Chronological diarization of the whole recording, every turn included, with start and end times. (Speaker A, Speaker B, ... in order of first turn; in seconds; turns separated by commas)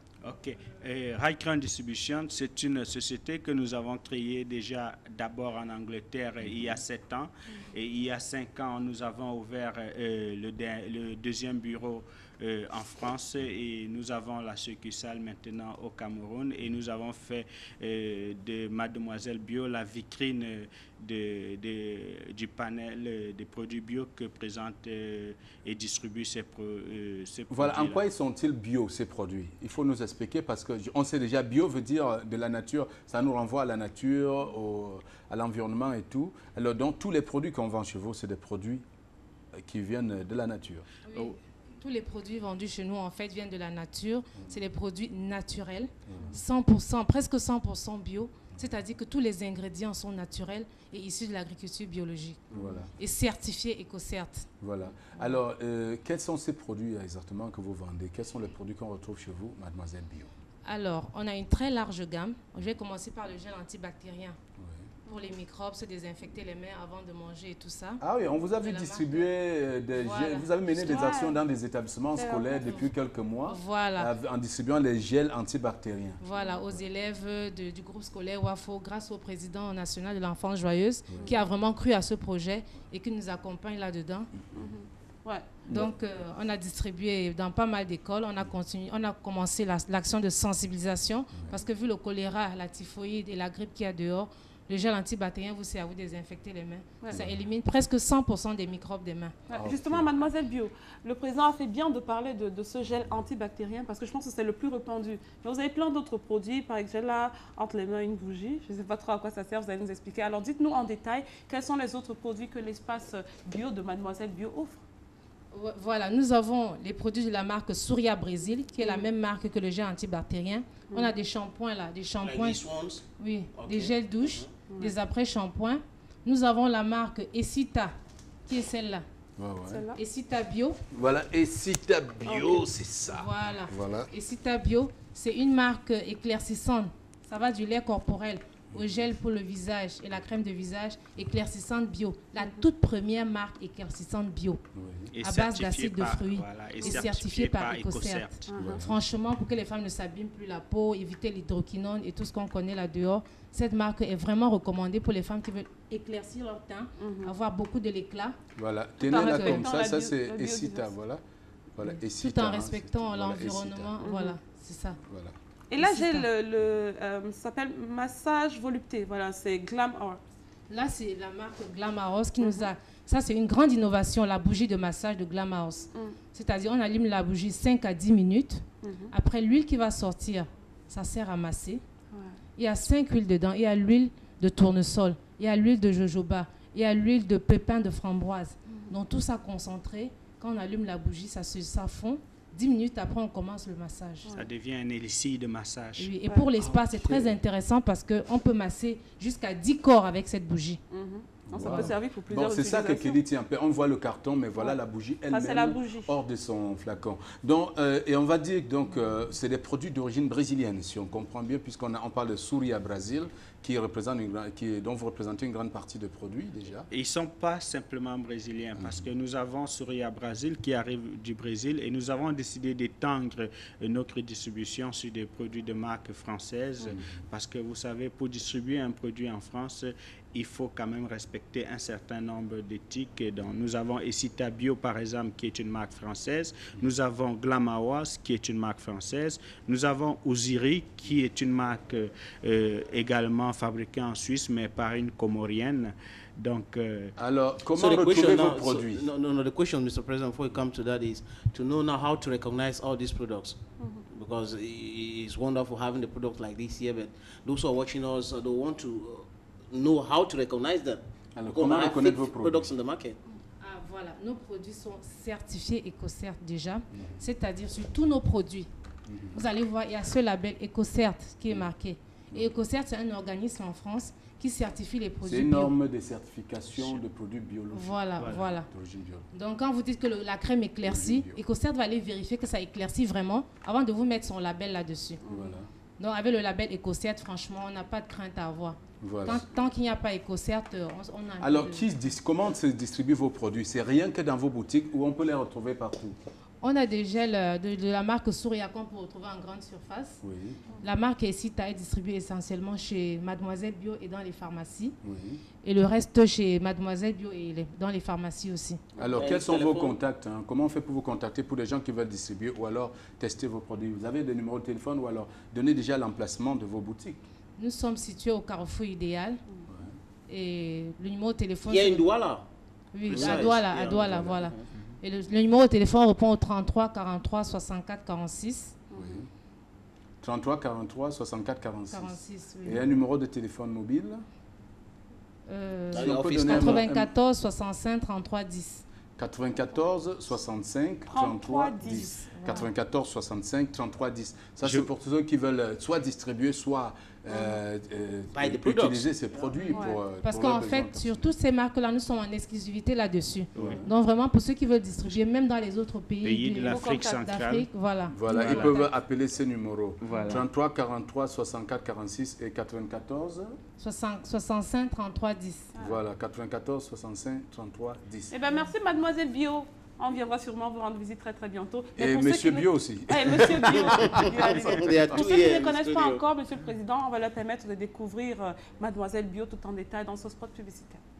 Speaker A: 0.2-28.0, Speaker B: 27.5-38.8, Speaker B: 39.6-40.9, Speaker C: 41.0-54.5, Speaker B: 46.1-46.4, Speaker B: 52.5-52.9, Speaker D: 52.5-52.8, Speaker B: 54.6-60.3, Speaker C: 60.6-64.4, Speaker C: 65.1-69.3, Speaker B: 68.0-76.2, Speaker C: 69.9-70.9, Speaker D: 70.8-71.4, Speaker D: 72.1-72.8, Speaker C: 73.5-74.1, Speaker C: 76.2-84.3, Speaker D: 76.3-76.6, Speaker D: 84.5-85.6, Speaker C: 85.7-99.3, Speaker B: 97.1-97.4, Speaker D: 99.5-114.8, Speaker B: 99.5-100.1, Speaker C: 115.5-127.9, Speaker D: 118.8-119.0, Speaker D: 120.9-121.1, Speaker E: 122.2-124.6, Speaker D: 124.7-124.9, Speaker C: 128.4-129.0, Speaker B: 129.4-129.8, Speaker D: 129.7-130.0, Speaker C: 129.9-130.8, Speaker B: 130.9-134.1, Speaker D: 132.2-132.7, Speaker C: 133.1-144.6, Speaker B: 144.7-145.1, Speaker A: 145.1-148.5, Speaker C: 145.2-158.3, Speaker B: 148.6-149.0, Speaker D: 157.0-157.3, Speaker B: 158.6-161.2, Speaker D: 159.0-160.9, Speaker C: 159.1-159.7, Speaker B: 161.7-163.9, Speaker C: 161.8-165.0, Speaker D: 164.0-164.4, Speaker B: 165.1-165.3, Speaker D: 165.7-170.2, Speaker C: 165.8-166.3, Speaker C: 170.7-181.8, Speaker D: 172.4-172.7, Speaker D: 178.8-179.1, Speaker D: 182.1-182.4, Speaker C: 182.6-194.3, Speaker D: 188.7-188.9, Speaker A: 194.3-197.1, Speaker C: 196.0-200.8, Speaker D: 200.9-203.2, Speaker B: 201.5-216.9, Speaker C: 201.6-201.9, Speaker D: 205.3-206.1, Speaker A: 216.9-247.1, Speaker B: 218.8-219.0, Speaker B: 226.9-227.2, Speaker B: 247.2-249.1, Speaker E: 247.7-263.2, Speaker D: 253.8-254.0, Speaker B: 261.4-262.7, Speaker C: 263.6-268.7, Speaker B: 269.1-269.4, Speaker C: 269.3-275.7, Speaker B: 275.2-279.3, Speaker C: 277.7-278.7, Speaker C: 279.3-285.2, Speaker B: 280.8-281.4, Speaker D: 285.2-285.6, Speaker B: 285.3-285.7, Speaker C: 286.0-291.9, Speaker B: 289.0-289.4, Speaker B: 291.4-296.2, Speaker C: 296.6-300.2, Speaker B: 300.2-300.6, Speaker C: 300.8-305.0, Speaker B: 305.0-305.4, Speaker C: 305.6-308.8, Speaker B: 308.9-317.2, Speaker E: 309.0-310.0, Speaker C: 317.6-319.4, Speaker C: 320.3-322.1, Speaker E: 321.6-322.5, Speaker C: 322.9-328.8, Speaker E: 323.1-324.7, Speaker B: 323.1-323.4, Speaker D: 328.9-329.2, Speaker B: 328.9-329.3, Speaker B: 330.2-334.2, Speaker C: 331.9-332.9, Speaker C: 335.5-338.8, Speaker E: 335.9-336.8, Speaker B: 335.9-337.1, Speaker B: 339.2-351.3, Speaker D: 341.1-342.1, Speaker C: 341.9-342.7, Speaker A: 344.6-344.9, Speaker E: 348.3-349.5, Speaker C: 349.6-358.9, Speaker D: 349.7-350.0, Speaker A: 353.5-353.8, Speaker B: 353.5-353.9, Speaker A: 356.2-357.7, Speaker D: 356.6-357.2, Speaker B: 358.1-363.5, Speaker A: 358.3-358.7, Speaker A: 360.0-360.4, Speaker C: 363.8-365.7, Speaker B: 365.8-368.3, Speaker D: 368.3-381.0, Speaker B: 371.9-374.3, Speaker E: 373.7-376.2